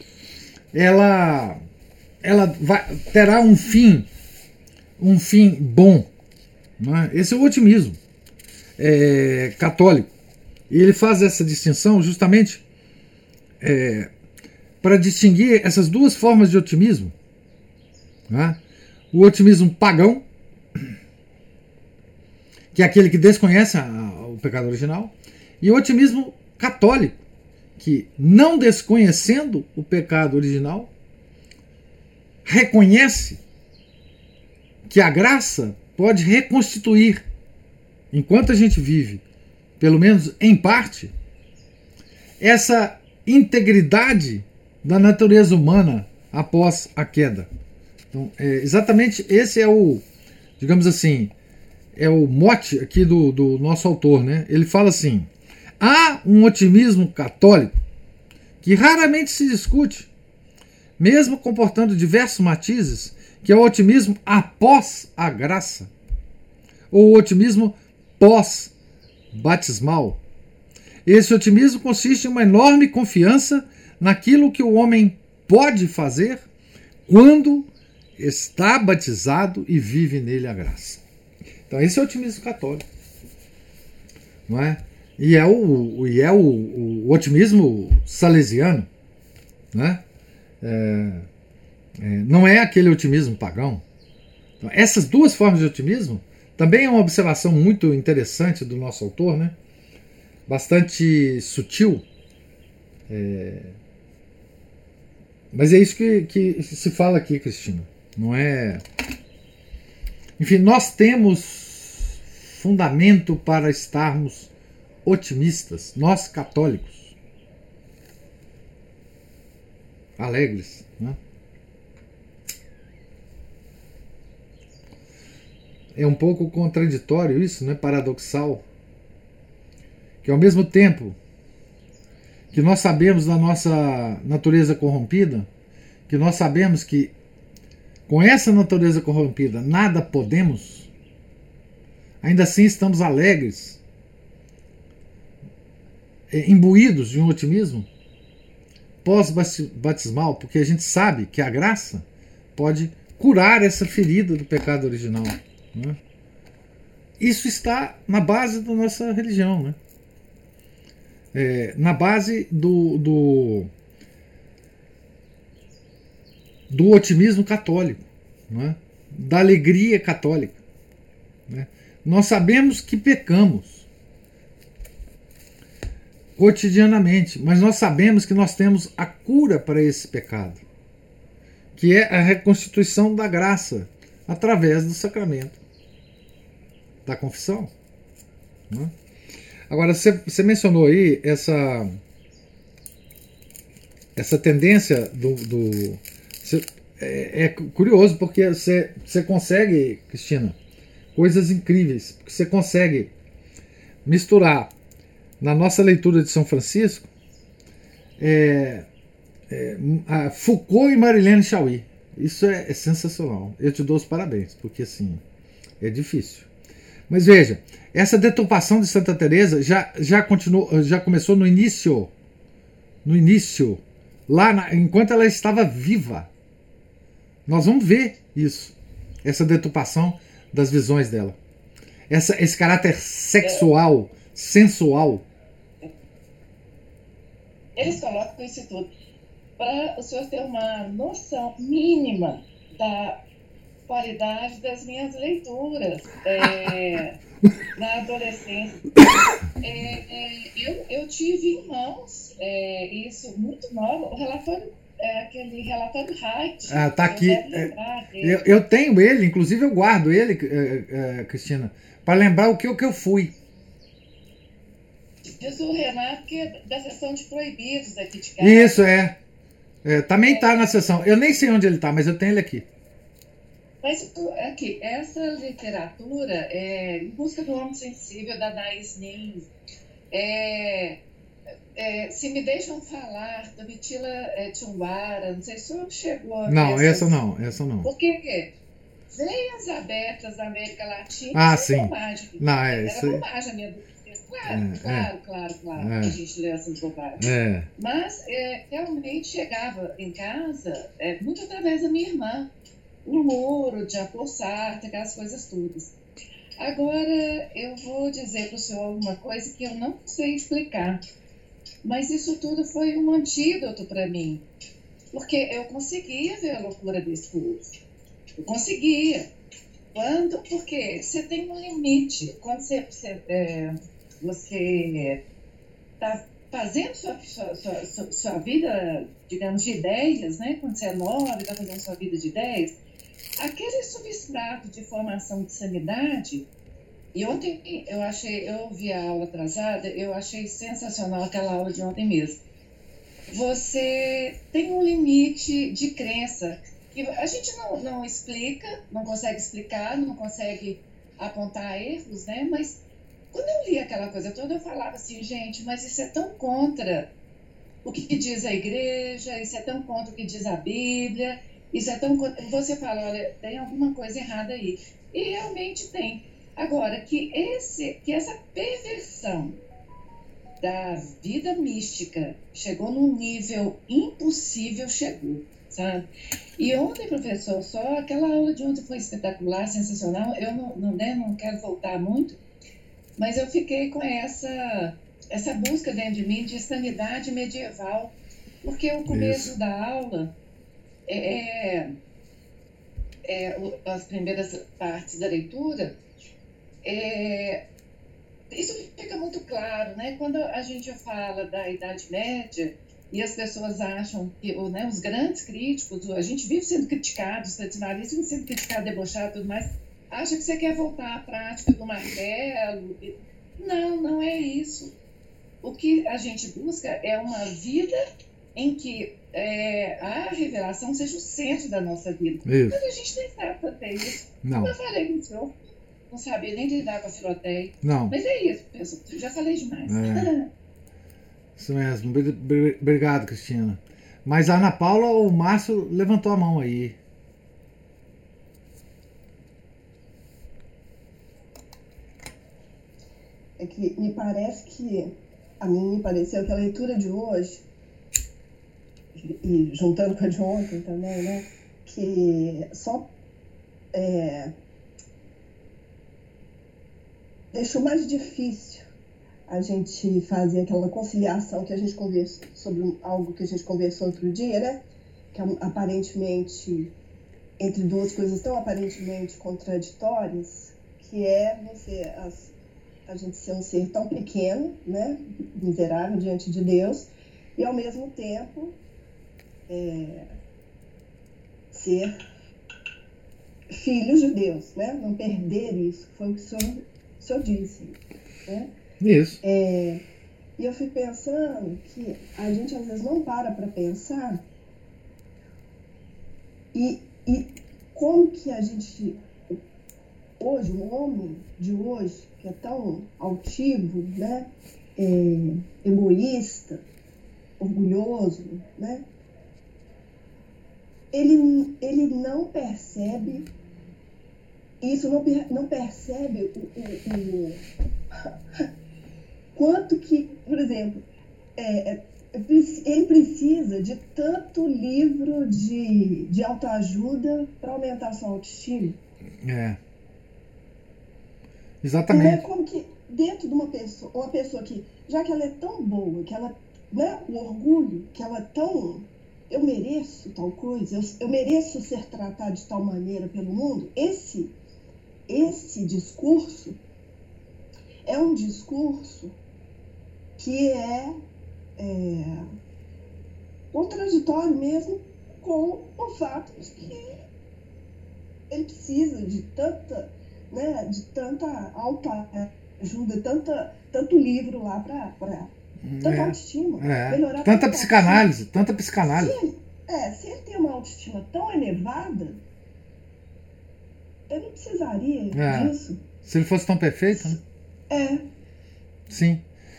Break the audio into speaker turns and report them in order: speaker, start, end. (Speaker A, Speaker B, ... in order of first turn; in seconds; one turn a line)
Speaker A: 0.7-1.6
Speaker A: 2.2-4.1
Speaker A: 5.0-6.1
Speaker A: 6.8-8.0
Speaker A: 8.8-10.1
Speaker A: 10.7-12.6
Speaker A: 13.6-14.1
Speaker A: 14.8-17.1
Speaker A: 18.3-18.6
Speaker A: 19.1-20.2
Speaker A: 22.7-27.2
Speaker A: 27.8-30.9
Speaker A: 32.5-33.4
Speaker A: 34.9-37.2
Speaker A: 38.1-39.2
Speaker A: 39.8-41.1
Speaker A: 42.4-47.5
Speaker A: 48.1-50.0
Speaker A: 50.6-51.3
Speaker A: 52.0-57.8
Speaker A: 58.6-60.1
Speaker A: 61.0-65.9
Speaker A: 66.9-68.7
Speaker A: 69.3-70.2
Speaker A: 71.1-76.5
Speaker A: 77.1-81.0
Speaker A: 81.7-82.9
Speaker A: 84.5-88.9
Speaker A: 89.7-90.0
Speaker A: 90.6-91.3
Speaker A: 92.0-93.8
Speaker A: 94.6-99.5
Speaker A: 100.5-102.0
Speaker A: 103.1-103.8
Speaker A: 105.5-108.8
Speaker A: 110.4-114.5
Speaker A: 115.0-117.2
Speaker A: 120.2-121.2
Speaker A: 126.0-128.6
Speaker A: 130.2-131.2
Speaker A: 132.5-135.5
Speaker A: 136.1-137.1
Speaker A: 138.1-140.9
Speaker A: 142.2-143.8
Speaker A: 146.3-147.9
Speaker A: 149.0-152.1
Speaker A: 152.6-156.0
Speaker A: 157.2-159.8
Speaker A: 161.3-163.7
Speaker A: 166.7-170.6
Speaker A: 171.5-173.9
Speaker A: 176.4-180.6
Speaker A: 181.8-185.6
Speaker A: 187.1-187.7
Speaker A: 189.7-192.0
Speaker A: 194.2-200.6
Speaker A: 201.1-203.1
Speaker A: 204.1-204.7
Speaker A: 205.4-207.1
Speaker A: 208.2-208.9
Speaker A: 209.5-215.2
Speaker A: 215.8-216.5
Speaker A: 217.1-222.1
Speaker A: 223.1-226.3
Speaker A: 227.5-231.4
Speaker A: 232.1-235.2
Speaker B: 237.8-238.9
Speaker B: 239.6-243.2
Speaker B: 243.9-247.2
Speaker B: 247.8-248.9
Speaker B: 249.6-258.4
Speaker A: 256.7-263.3
Speaker B: 265.4-268.8
Speaker A: 268.4-269.2
Speaker A: 269.8-272.7
Speaker B: 270.3-270.7
Speaker B: 273.8-279.5
Speaker B: 280.1-281.0
Speaker B: 281.8-287.2
Speaker A: 286.5-287.9
Speaker B: 287.8-288.5
Speaker B: 289.1-302.5
Speaker A: 291.3-293.2
Speaker A: 294.5-295.1
Speaker A: 295.8-296.2
Speaker A: 297.2-297.7
Speaker B: 303.1-305.9
Speaker B: 306.6-311.0
Speaker B: 311.8-314.4
Speaker B: 315.1-317.6
Speaker B: 318.4-319.3
Speaker B: 319.9-325.2
Speaker B: 326.0-332.7
Speaker B: 333.4-336.5
Speaker B: 337.1-342.4
Speaker B: 343.3-352.8
Speaker B: 353.3-357.1
Speaker B: 357.8-369.6
Speaker B: 370.6-376.1
Speaker B: 376.6-382.4
Speaker B: 383.2-390.3
Speaker A: 389.1-389.5
Speaker B: 391.1-391.9
Speaker B: 393.2-396.0
Speaker B: 396.8-397.6
Speaker B: 398.5-414.9
Speaker B: 415.6-418.0
Speaker B: 418.6-425.6
Speaker A: 422.5-422.8
Speaker A: 424.4-424.7
Speaker B: 426.1-430.5
Speaker A: 427.8-428.1
Speaker A: 429.9-430.3
Speaker A: 431.6-437.0
Speaker C: 443.6-447.6
Speaker C: 449.2-453.1
Speaker C: 453.9-454.5
Speaker C: 457.5-458.9
Speaker C: 459.5-466.9
Speaker C: 467.6-472.5
Speaker C: 473.1-478.8
Speaker C: 479.7-480.3
Speaker C: 481.7-482.1
Speaker C: 483.7-488.7
Speaker A: 489.0-489.4
Speaker C: 489.4-490.0
Speaker C: 490.6-494.5
Speaker C: 496.7-499.6
Speaker C: 500.4-506.8
Speaker C: 507.6-509.1
Speaker C: 511.1-513.5
Speaker C: 514.8-517.6
Speaker C: 519.5-521.0
Speaker C: 521.6-529.0
Speaker A: 529.4-529.8
Speaker A: 531.8-532.4
Speaker C: 532.1-544.5
Speaker C: 545.3-546.8
Speaker C: 548.1-549.4
Speaker C: 550.4-551.2
Speaker C: 551.8-552.5
Speaker C: 553.7-557.1
Speaker C: 558.5-568.3
Speaker A: 565.8-569.4
Speaker C: 569.1-572.4
Speaker C: 574.3-576.0
Speaker A: 575.3-577.4
Speaker C: 577.9-578.3
Speaker A: 579.1-579.4